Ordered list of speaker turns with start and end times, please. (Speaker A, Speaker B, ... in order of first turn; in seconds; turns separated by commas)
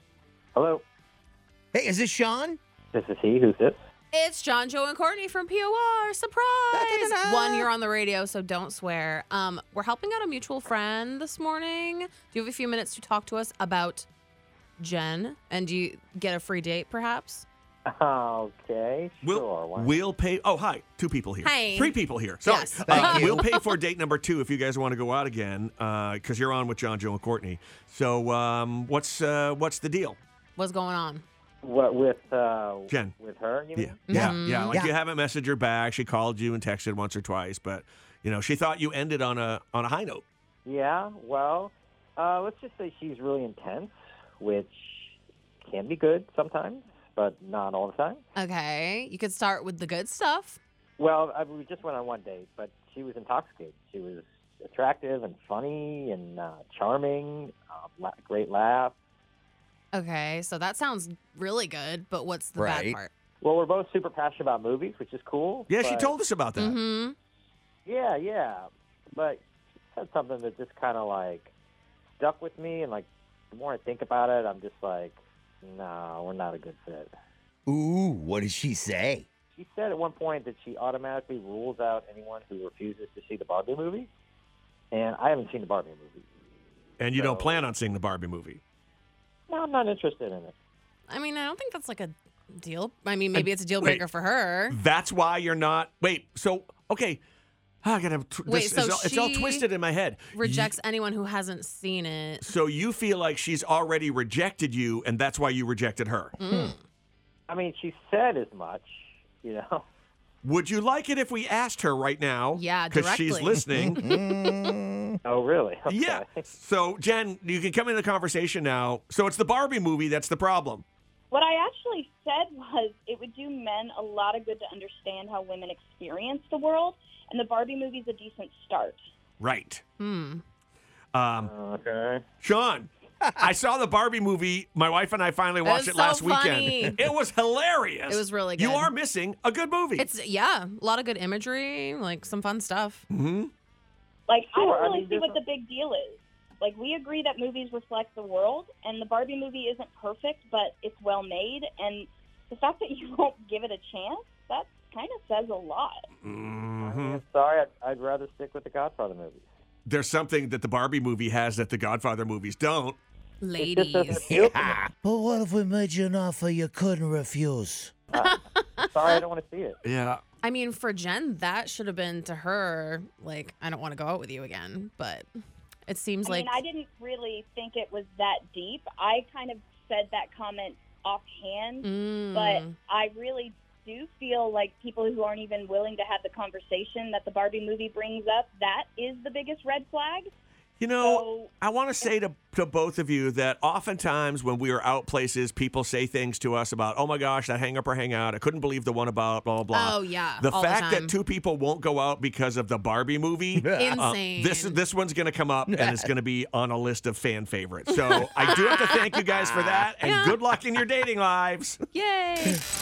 Speaker A: 0.6-0.8, Speaker B: 1.7-2.6, Speaker A: 2.9-3.8, Speaker C: 4.1-14.1, Speaker B: 6.7-7.7, Speaker C: 14.8-17.5, Speaker A: 17.9-20.0, Speaker D: 19.2-30.2, Speaker C: 21.4-23.7, Speaker B: 22.9-23.5, Speaker C: 30.6-31.2, Speaker A: 31.6-34.0, Speaker D: 33.8-40.2, Speaker C: 34.1-34.9, Speaker B: 34.1-34.9, Speaker A: 40.6-48.2, Speaker C: 48.4-50.6, Speaker A: 51.0-58.9, Speaker C: 59.9-63.1, Speaker B: 62.6-63.0, Speaker A: 63.4-66.1, Speaker D: 65.7-66.8, Speaker C: 66.6-67.2, Speaker A: 67.9-69.4, Speaker A: 69.9-71.5, Speaker A: 72.2-77.1, Speaker B: 77.7-79.3, Speaker A: 79.6-84.1, Speaker A: 84.9-86.2, Speaker D: 87.0-88.6, Speaker A: 87.2-87.6, Speaker A: 89.5-90.5, Speaker C: 91.1-94.8, Speaker D: 93.3-94.0, Speaker D: 94.7-97.2, Speaker D: 97.8-100.6, Speaker C: 98.5-99.7, Speaker C: 100.3-102.5, Speaker D: 102.4-106.4, Speaker C: 106.4-106.8, Speaker B: 106.4-106.7, Speaker A: 107.5-109.8, Speaker D: 110.4-114.0, Speaker C: 112.5-114.8, Speaker B: 113.7-115.2, Speaker A: 115.2-116.4, Speaker D: 115.9-120.8, Speaker E: 121.3-129.0, Speaker D: 129.4-129.8, Speaker C: 130.0-130.4, Speaker D: 131.1-131.5, Speaker A: 131.4-132.2, Speaker D: 132.4-140.1, Speaker C: 135.6-137.0, Speaker C: 138.1-138.9, Speaker C: 140.0-143.0, Speaker D: 143.1-143.5, Speaker E: 144.3-156.1, Speaker A: 144.6-145.4, Speaker D: 156.2-157.2, Speaker A: 156.8-159.5, Speaker D: 159.9-163.0, Speaker C: 163.4-164.3, Speaker A: 163.6-164.8, Speaker B: 164.3-167.9, Speaker A: 168.1-169.8, Speaker C: 168.2-169.1, Speaker D: 169.8-170.2, Speaker C: 170.4-175.3, Speaker C: 175.9-176.6, Speaker E: 176.2-190.3, Speaker C: 181.8-182.7, Speaker D: 190.8-211.8, Speaker E: 191.0-191.5, Speaker C: 199.7-201.1, Speaker B: 203.6-204.0, Speaker C: 203.7-204.8, Speaker B: 205.7-206.1, Speaker C: 207.9-209.2, Speaker B: 209.5-209.8, Speaker C: 210.0-210.6, Speaker C: 211.9-212.7